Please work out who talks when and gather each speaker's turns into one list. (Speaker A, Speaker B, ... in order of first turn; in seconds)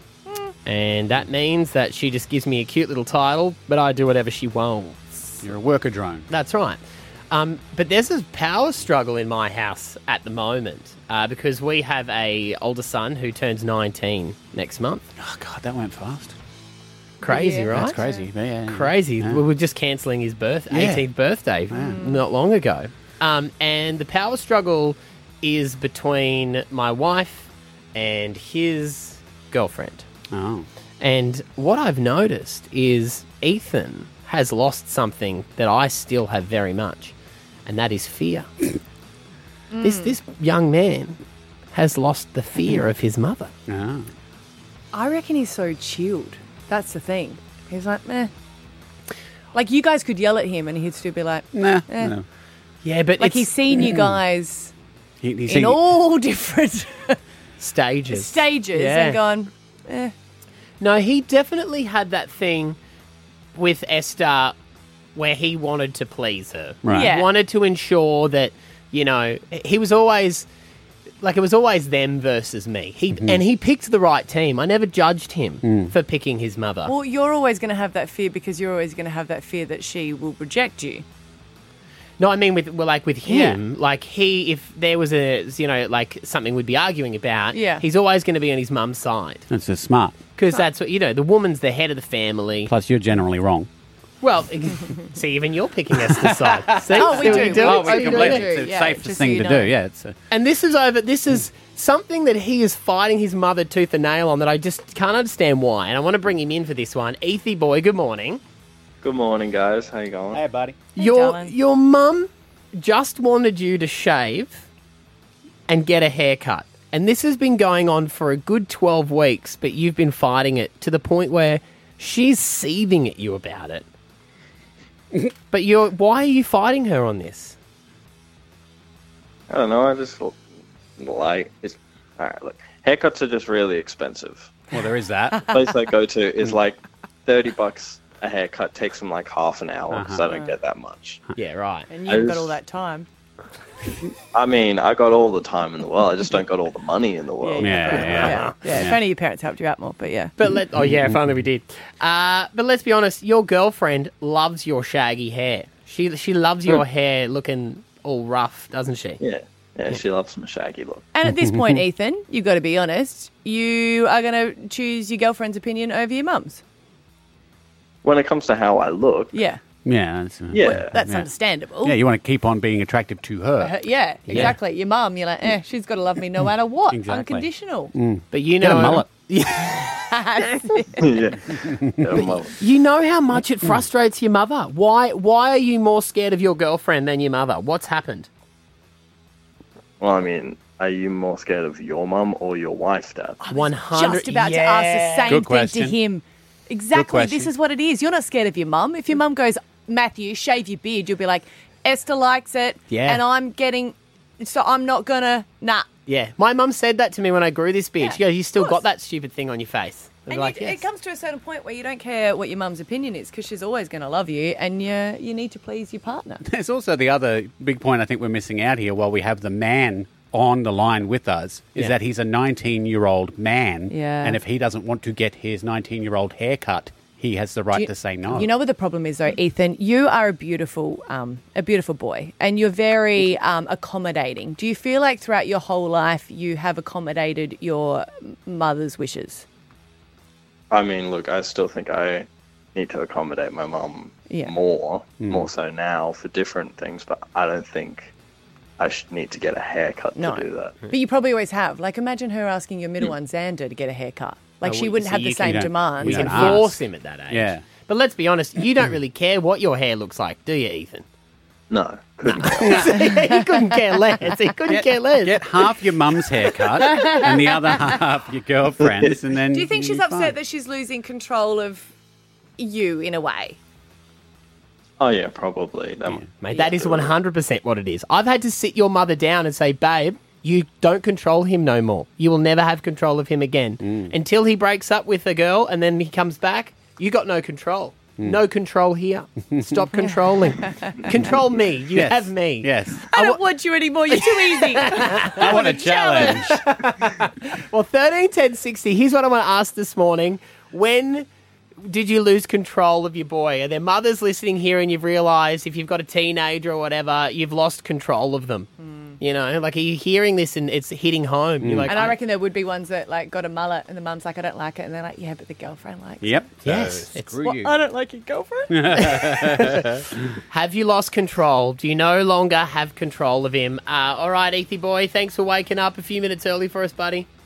Speaker A: 0.3-0.5, 17.2-18.3, 21.7-22.2, 39.7-40.2, 44.9-48.3, 49.5-52.1, 53.2-54.7, 55.5-57.2, 58.1-60.1, 66.9-67.3, 76.9-81.0, 87.5-87.8, 96.9-99.7, 111.0-111.5, 135.3-135.6, 141.9-143.1, 147.4-150.3, 161.1-166.6, 169.3-169.6, 170.6-172.0, 173.6-177.9, 179.9-181.2, 193.4-205.9, 208.0-208.8, 210.3-216.4, 223.9-224.4, 227.7-239.4, 244.3-244.5, 250.2-256.6, 267.0-267.3, 269.5-271.9, 272.6-273.6, 293.1-296.6, 308.8-309.2, 311.9-316.5, 317.4-319.0
Speaker B: 0.7-5.4, 6.3-6.8, 7.3-15.1, 17.2-18.0, 18.7-30.1, 31.0-38.5, 39.8-41.2, 41.7-43.5, 52.8-53.6, 57.6-59.2, 60.8-62.8, 63.5-64.5, 65.2-70.5, 71.2-76.9, 82.2-89.5, 90.3-92.7, 94.2-98.5, 100.3-108.4, 111.0-114.7, 115.7-123.9, 125.5-127.6, 141.3-141.9, 148.0-148.5, 150.4-159.2, 178.3-180.0, 182.2-188.3, 193.4-195.4, 202.9-203.2, 206.1-210.8, 254.6-261.1, 262.2-265.6, 276.4-293.4, 294.1-301.3, 301.8-312.2, 316.6-317.3, 319.0-327.3
Speaker C: 5.4-6.3, 15.2-16.4, 17.7-19.4, 20.7-21.1, 21.7-22.0, 30.3-30.7, 43.7-44.1, 51.5-52.2, 53.8-54.2, 55.2-55.9, 66.8-67.1, 73.1-73.4, 75.6-75.9, 83.2-83.6, 89.5-90.2, 92.7-93.7, 95.9-100.2, 110.3-110.8, 134.7-135.5, 139.9-140.2, 147.6-149.0, 161.2-161.8, 169.8-171.3, 171.8-174.6, 176.9-179.1, 181.5-182.2, 195.3-196.0, 196.9-197.5, 216.4-228.5, 245.2-245.5, 255.5-257.6, 264.7-270.3, 283.8-284.1, 291.9-293.1, 295.1-296.6, 311.6-311.9, 316.2-317.8, 318.7-320.0
Speaker D: 109.0-110.4, 129.5-130.4, 131.0-134.5, 135.5-141.2, 142.1-142.6, 144.3-148.4, 159.2-161.1, 168.0-169.4, 170.5-171.0, 181.0-182.6, 190.0-193.4, 240.7-248.1, 248.8-250.8, 261.7-262.9, 275.0-277.1